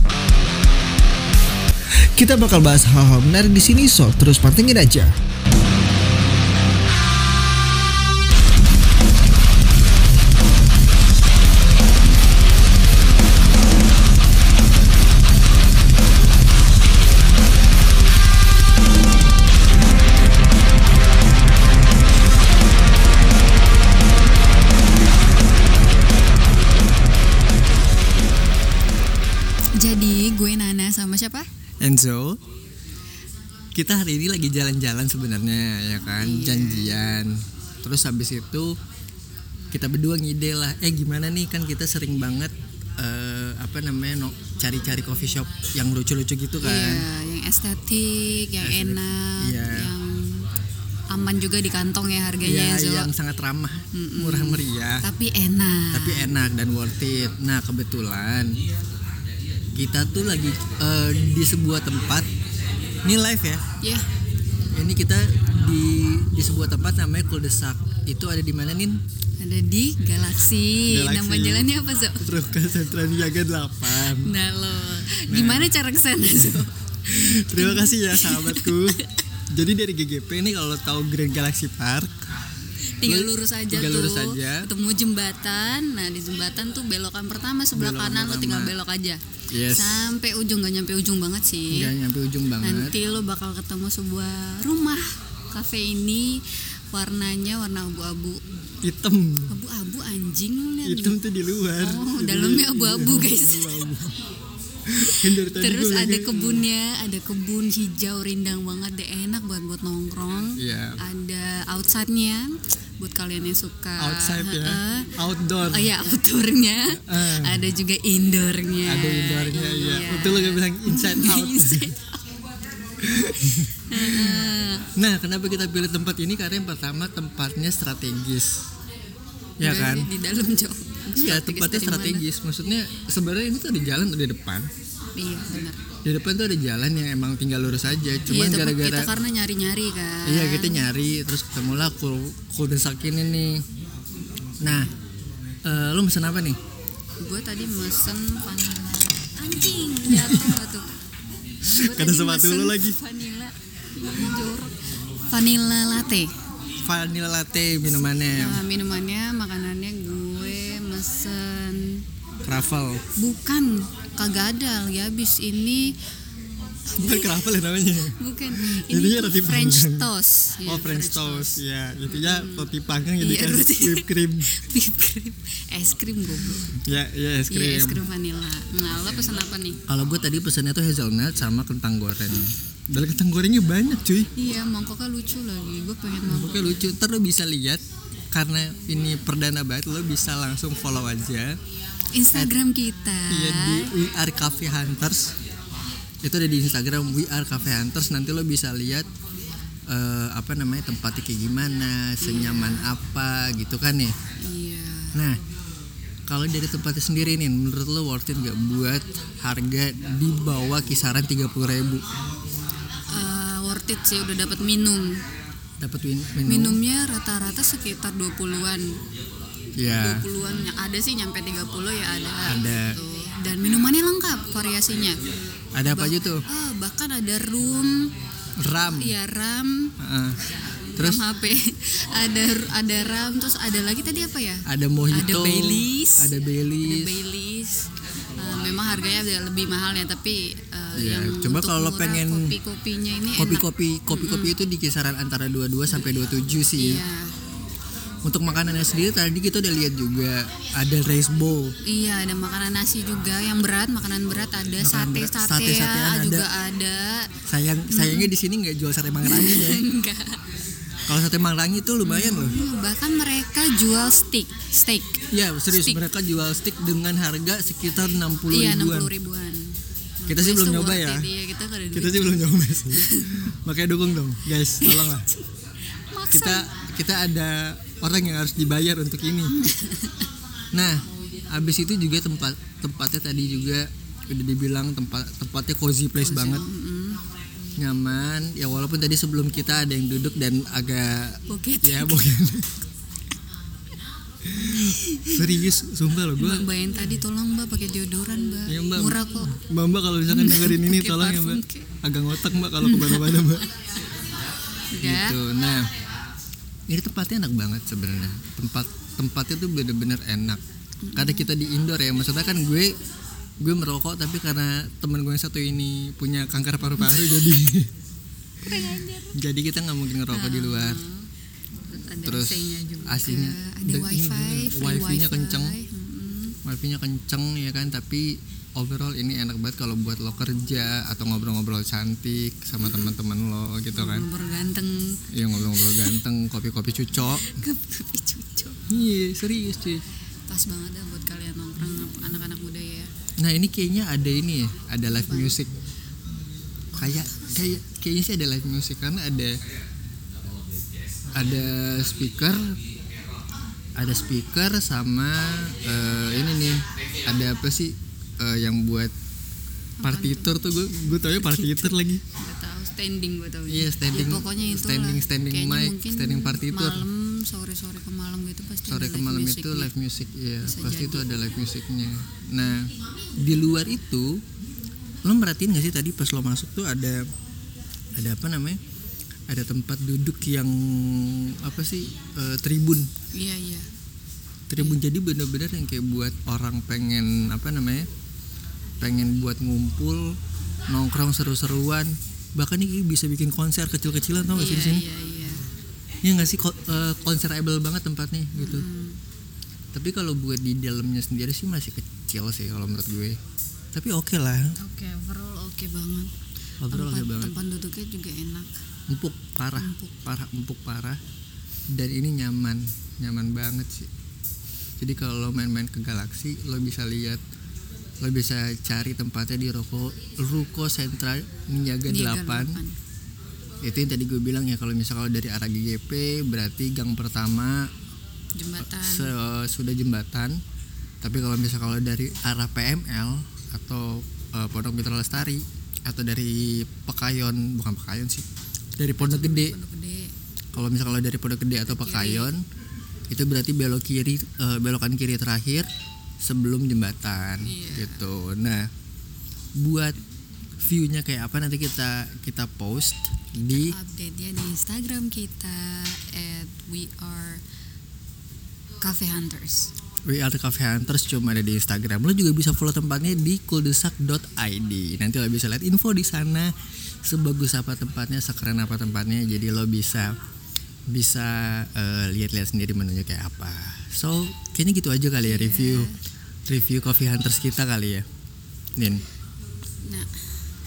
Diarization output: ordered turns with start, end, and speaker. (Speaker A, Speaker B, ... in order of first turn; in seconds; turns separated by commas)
Speaker A: 2.1-5.2, Speaker B: 29.8-31.5, Speaker C: 31.8-32.4, Speaker C: 33.7-38.8, Speaker B: 36.1-37.0, Speaker C: 39.7-47.0, Speaker B: 46.6-50.5, Speaker C: 48.6-49.9, Speaker B: 51.1-53.1, Speaker C: 52.4-55.0, Speaker B: 53.9-56.3, Speaker C: 55.9-58.5, Speaker C: 59.8-62.3, Speaker C: 63.0-63.6, Speaker B: 63.8-64.0, Speaker C: 64.7-69.0, Speaker B: 69.4-72.2, Speaker C: 70.9-74.3, Speaker B: 73.9-79.1, Speaker C: 75.3-75.7, Speaker C: 77.1-82.1, Speaker B: 83.0-91.9, Speaker C: 83.0-84.7, Speaker C: 87.7-88.7, Speaker C: 89.5-90.1, Speaker C: 91.7-92.9, Speaker B: 92.6-98.4, Speaker C: 98.8-99.5, Speaker B: 99.5-101.2, Speaker C: 100.8-104.2, Speaker B: 101.8-103.9, Speaker C: 104.8-106.6, Speaker B: 105.0-122.1, Speaker C: 110.6-111.0, Speaker C: 114.0-115.9, Speaker C: 117.0-117.7, Speaker C: 118.8-121.9, Speaker C: 123.0-128.7, Speaker B: 123.9-124.9, Speaker C: 129.6-130.1, Speaker B: 129.6-132.2, Speaker C: 131.1-134.7, Speaker B: 135.2-135.8, Speaker C: 136.0-139.1, Speaker B: 138.2-140.8, Speaker C: 140.2-143.6, Speaker C: 144.6-144.9, Speaker C: 145.7-146.6, Speaker B: 147.2-150.9, Speaker C: 150.1-150.5, Speaker B: 151.7-154.8, Speaker C: 151.7-153.0, Speaker B: 155.3-156.3, Speaker C: 156.8-158.6, Speaker B: 158.3-162.0, Speaker C: 162.4-163.0, Speaker B: 163.2-165.9, Speaker C: 167.0-170.1, Speaker B: 167.0-167.3, Speaker B: 168.1-176.8, Speaker C: 170.7-174.5, Speaker C: 176.6-178.0, Speaker B: 177.5-179.8, Speaker C: 179.9-184.3, Speaker B: 184.3-186.9, Speaker C: 186.2-191.6, Speaker B: 192.1-193.9, Speaker C: 193.3-195.3, Speaker C: 196.2-199.1, Speaker C: 199.9-204.1, Speaker B: 202.2-202.9, Speaker B: 204.4-205.2, Speaker C: 205.1-205.4, Speaker C: 206.3-212.0, Speaker B: 213.1-215.2, Speaker C: 215.8-216.8, Speaker B: 216.4-219.0, Speaker C: 219.8-220.2, Speaker B: 219.9-225.2, Speaker C: 222.4-223.0, Speaker C: 225.7-226.4, Speaker B: 225.9-228.1, Speaker C: 228.6-229.2, Speaker B: 228.8-229.9, Speaker C: 230.0-230.4, Speaker B: 230.9-244.5, Speaker C: 231.0-231.2, Speaker C: 234.7-237.1, Speaker C: 240.9-242.5, Speaker C: 243.3-247.0, Speaker B: 246.8-247.3, Speaker C: 248.2-251.8, Speaker B: 251.8-257.3, Speaker C: 254.8-256.5, Speaker C: 257.5-259.8, Speaker B: 257.9-258.3, Speaker B: 259.2-260.4, Speaker C: 261.1-262.6, Speaker B: 262.0-266.0, Speaker C: 265.3-269.1, Speaker B: 268.5-273.4, Speaker C: 270.3-271.3, Speaker C: 271.9-275.3, Speaker B: 274.8-275.5, Speaker B: 276.1-276.7, Speaker C: 276.3-279.6, Speaker B: 279.6-280.1, Speaker C: 280.7-286.6, Speaker B: 286.2-287.2, Speaker C: 287.8-292.8, Speaker B: 291.5-292.2, Speaker C: 294.5-296.7, Speaker B: 294.7-295.4, Speaker B: 296.4-299.6, Speaker C: 298.7-303.7, Speaker B: 300.3-301.9, Speaker B: 302.8-303.6, Speaker B: 304.9-305.4, Speaker C: 305.0-305.9, Speaker C: 306.9-310.6, Speaker B: 311.0-311.5, Speaker C: 311.1-313.0, Speaker C: 313.6-317.9, Speaker B: 318.6-319.4, Speaker C: 319.3-321.0, Speaker B: 320.3-321.3, Speaker B: 321.9-326.6, Speaker C: 322.2-325.8, Speaker C: 326.6-334.3, Speaker B: 332.8-333.1, Speaker B: 333.9-335.2, Speaker C: 335.3-337.6, Speaker B: 335.7-336.1, Speaker B: 337.2-338.8, Speaker C: 338.9-340.0, Speaker B: 340.5-343.1, Speaker C: 343.4-345.7, Speaker B: 345.0-345.6, Speaker C: 346.9-349.6, Speaker C: 351.3-352.8, Speaker C: 354.0-359.1, Speaker B: 360.0-369.9, Speaker C: 360.0-362.2, Speaker C: 363.7-367.0, Speaker C: 368.9-374.4, Speaker B: 370.6-371.3, Speaker C: 375.2-377.3, Speaker C: 378.1-378.8, Speaker C: 379.5-383.1, Speaker B: 383.3-383.9, Speaker C: 384.7-388.1, Speaker C: 389.0-390.4, Speaker C: 390.9-395.0, Speaker B: 394.5-395.6, Speaker C: 396.2-398.9, Speaker B: 398.5-399.2, Speaker C: 399.9-403.4, Speaker C: 403.9-404.8, Speaker B: 404.8-406.3, Speaker C: 406.8-407.6, Speaker B: 406.9-408.8, Speaker C: 409.1-411.2, Speaker B: 409.8-410.1, Speaker C: 411.9-414.1, Speaker C: 415.0-417.4, Speaker C: 418.2-422.7, Speaker B: 422.1-422.9, Speaker C: 423.8-427.9, Speaker B: 428.5-429.3, Speaker C: 428.8-430.6, Speaker C: 431.2-438.4, Speaker C: 439.0-439.7, Speaker B: 439.2-440.3, Speaker C: 440.7-442.6, Speaker B: 441.9-442.5, Speaker C: 443.3-445.9, Speaker C: 446.4-448.8, Speaker B: 447.6-448.3, Speaker C: 449.8-450.1, Speaker C: 450.8-453.9, Speaker B: 453.7-457.6, Speaker B: 459.0-459.9, Speaker C: 460.3-466.7, Speaker C: 467.2-470.3, Speaker C: 471.1-476.1, Speaker B: 475.4-476.2, Speaker C: 476.6-478.2, Speaker C: 478.9-479.2, Speaker B: 480.0-480.3